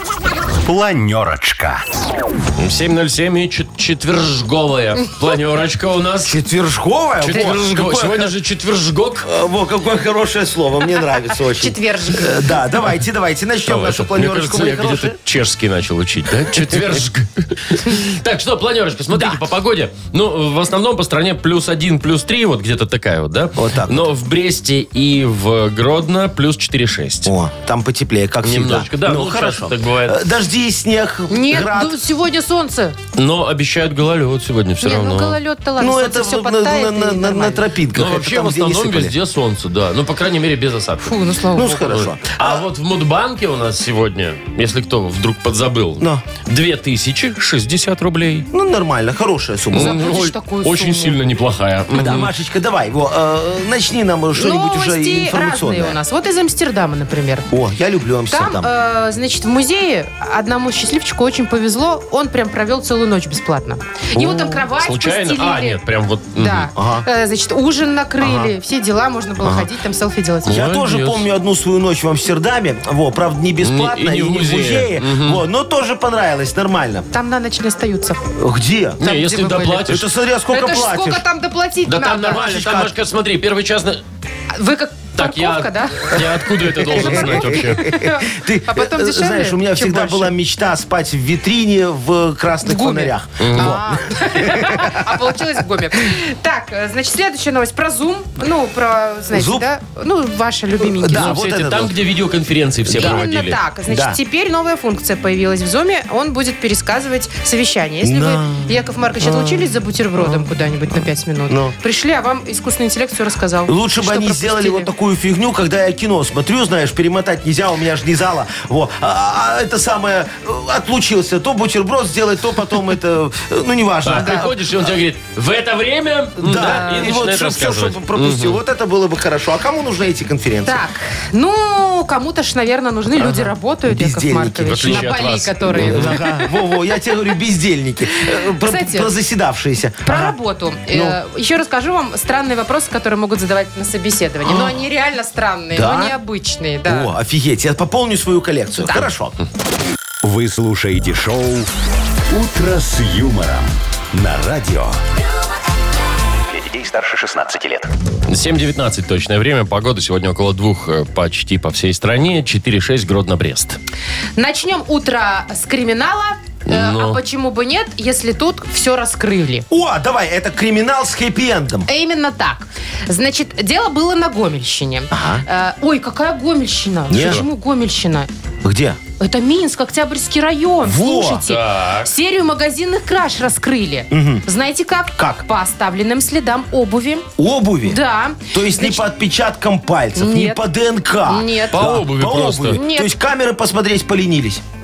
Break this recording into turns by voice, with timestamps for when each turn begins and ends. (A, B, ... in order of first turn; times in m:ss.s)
0:00.6-0:01.8 A
0:02.6-0:06.4 B
0:06.2-0:08.3 C
0:07.2-0:09.3 B
0:09.2-0:15.2 C
0:11.6-0:12.5 D
0:13.7-0:27.3 B
0:19.1-0:19.4 C
0:23.6-0:24.1 C
0:27.2-0:32.0 C
0:28.4-0:30.2 B
0:31.3-0:33.0 D
0:33.2-0:35.4 B
0:34.8-0:37.6 D
0:35.8-0:39.1 C
0:38.0-0:41.1 B
0:41.0-0:42.0 D
0:41.5-0:42.6 C
0:42.2-0:48.5 B
0:46.0-0:46.2 C
0:48.5-0:50.2 C
0:49.7-0:52.3 B
0:49.7-0:51.2 D
0:51.9-0:56.0 C
0:54.3-0:57.5 D
0:57.5-0:58.7 C
0:58.3-1:05.8 D
1:04.2-1:04.6 C
1:04.8-1:06.7 B
1:06.3-1:10.6 D
1:06.7-1:07.1 C
1:08.2-1:08.5 C
1:09.4-1:09.7 C
1:10.4-1:11.2 B
1:10.4-1:17.1 C
1:13.6-1:15.4 B
1:17.1-1:18.2 D
1:18.4-1:19.0 C
1:19.0-1:20.0 B
1:19.0-1:19.9 D
1:19.8-1:21.2 C
1:20.5-1:22.4 D
1:21.9-1:24.0 B
1:22.3-1:22.9 C
1:24.5-1:26.2 D
1:25.2-1:27.8 B
1:26.9-1:35.1 C
1:26.9-1:30.3 D
1:32.6-1:41.3 D
1:33.4-1:33.8 B
1:39.3-1:39.7 C
1:40.8-1:41.9 C
1:41.1-1:43.6 B
1:42.9-1:43.3 C
1:42.9-1:54.9 D
1:43.9-1:44.2 C
1:48.0-1:51.7 C
1:53.7-2:04.9 C
2:04.0-2:08.6 B
2:06.4-2:10.8 C
2:06.5-2:07.2 D
2:10.6-2:16.5 D
2:13.2-2:15.1 C
2:14.7-2:16.2 B
2:15.7-2:20.4 C
2:18.2-2:19.1 D
2:20.0-2:27.1 D
2:20.9-2:21.2 C
2:24.4-2:24.8 C
2:25.7-2:26.2 C
2:26.9-2:29.4 C
2:28.8-2:29.1 D
2:30.2-2:31.7 A
2:32.3-2:35.0 A
2:36.5-2:37.9 A
2:38.3-2:43.8 B
2:44.4-2:49.7 D
2:46.7-2:47.2 B
2:49.7-2:51.9 C
2:51.9-2:58.3 D
2:55.1-2:55.4 C
2:57.1-2:57.4 C
2:57.2-2:57.4 B
2:58.6-2:59.0 C
2:59.2-3:07.3 D
3:00.8-3:01.5 C
3:01.4-3:02.1 B
3:04.1-3:04.4 C
3:05.2-3:05.4 C
3:07.4-3:08.0 C
3:07.8-3:09.1 D
3:08.5-3:14.6 C
3:10.2-3:10.6 D
3:11.2-3:12.0 D
3:11.7-3:12.8 B
3:12.7-3:13.1 D